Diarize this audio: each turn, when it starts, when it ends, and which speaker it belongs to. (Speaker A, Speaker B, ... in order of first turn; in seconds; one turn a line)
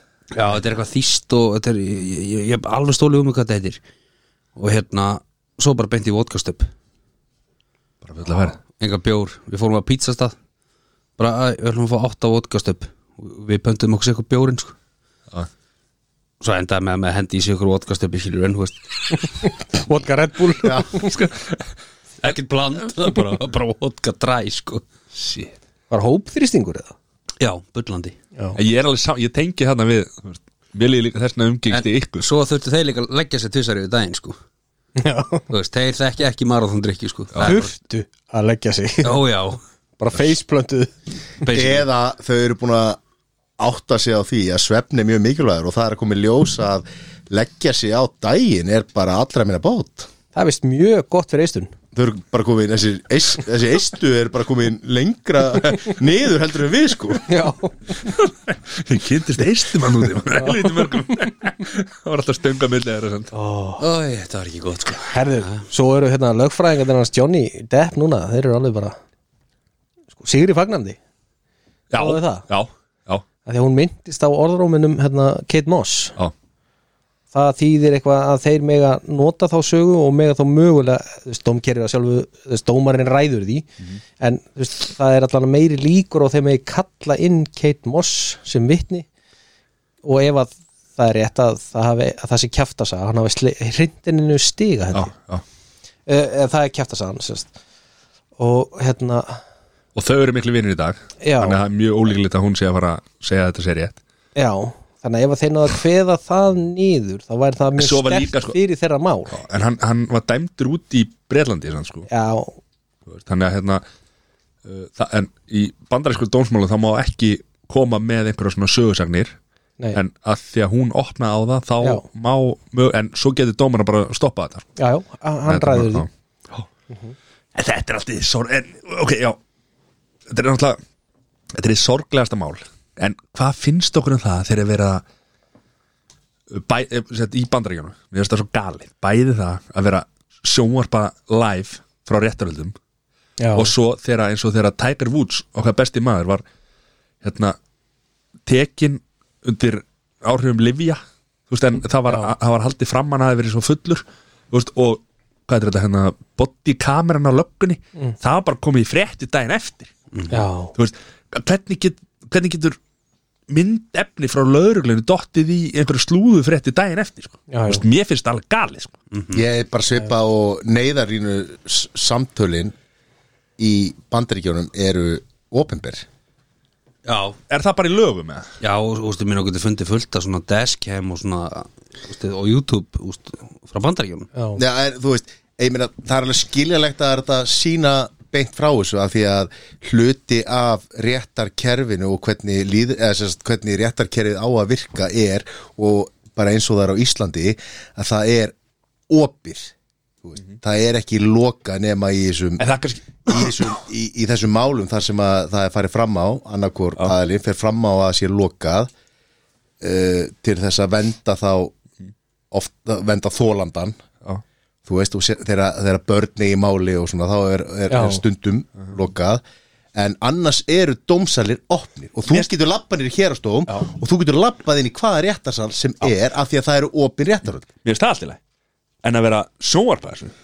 Speaker A: 0.3-3.8
Speaker A: 4.5-6.7
Speaker B: 8.0-8.6
Speaker A: 8.8-10.3
Speaker A: 11.2-14.7
Speaker A: 16.4-19.2
Speaker C: 19.4-21.1
Speaker B: 20.8-21.6
Speaker A: 22.2-24.8
Speaker B: 25.1-25.5
Speaker C: 25.9-26.9
Speaker A: 27.4-28.1
Speaker B: 28.6-32.3
Speaker A: 31.7-34.4
Speaker C: 35.0-35.5
Speaker A: 35.5-37.7
Speaker C: 37.4-39.2
Speaker A: 39.0-39.6
Speaker C: 40.0-40.9
Speaker A: 41.4-41.9
Speaker D: 41.5-43.0
Speaker D: 43.6-50.1
Speaker C: 50.3-51.7
Speaker D: 51.9-57.2
Speaker C: 57.3-58.1
Speaker B: 58.0-63.3
Speaker C: 60.4-60.9
Speaker C: 63.3-63.8
Speaker A: 63.8-65.6
Speaker C: 65.1-69.0
Speaker C: 70.2-71.0
Speaker B: 71.9-73.2
Speaker C: 72.0-72.5
Speaker C: 73.4-76.2
Speaker C: 77.3-83.7
Speaker C: 84.2-89.1
Speaker C: 90.0-95.1
Speaker B: 94.9-95.4
Speaker C: 96.1-97.5
Speaker C: 98.4-99.4
Speaker B: 99.9-104.0
Speaker C: 101.2-101.6
Speaker C: 104.3-109.3
Speaker B: 107.8-108.6
Speaker B: 109.3-112.1
Speaker C: 112.1-112.6
Speaker B: 113.1-113.8
Speaker B: 114.6-119.4
Speaker B: 119.9-124.7
Speaker C: 124.8-126.1
Speaker B: 125.5-126.7
Speaker C: 126.9-127.1
Speaker B: 127.5-129.4
Speaker B: 130.3-130.8
Speaker B: 131.5-135.0
Speaker B: 136.5-142.8
Speaker C: 143.4-143.7
Speaker B: 143.5-146.4
Speaker B: 147.2-147.6
Speaker B: 148.4-159.9
Speaker C: 160.3-160.7
Speaker B: 160.7-162.8
Speaker B: 163.5-168.9
Speaker C: 167.5-167.8
Speaker A: 169.1-169.4
Speaker D: 169.3-172.7
Speaker D: 173.6-176.0
Speaker A: 177.1-177.4
Speaker B: 177.5-178.5
Speaker A: 178.6-184.3
Speaker C: 184.3-184.6
Speaker D: 184.6-198.5
Speaker D: 199.1-202.7
Speaker B: 202.6-203.7
Speaker D: 203.2-208.9
Speaker D: 209.8-211.7
Speaker D: 212.5-213.9
Speaker D: 214.8-219.4
Speaker C: 217.9-218.2
Speaker D: 219.9-227.7
Speaker B: 227.8-228.4
Speaker B: 229.0-230.3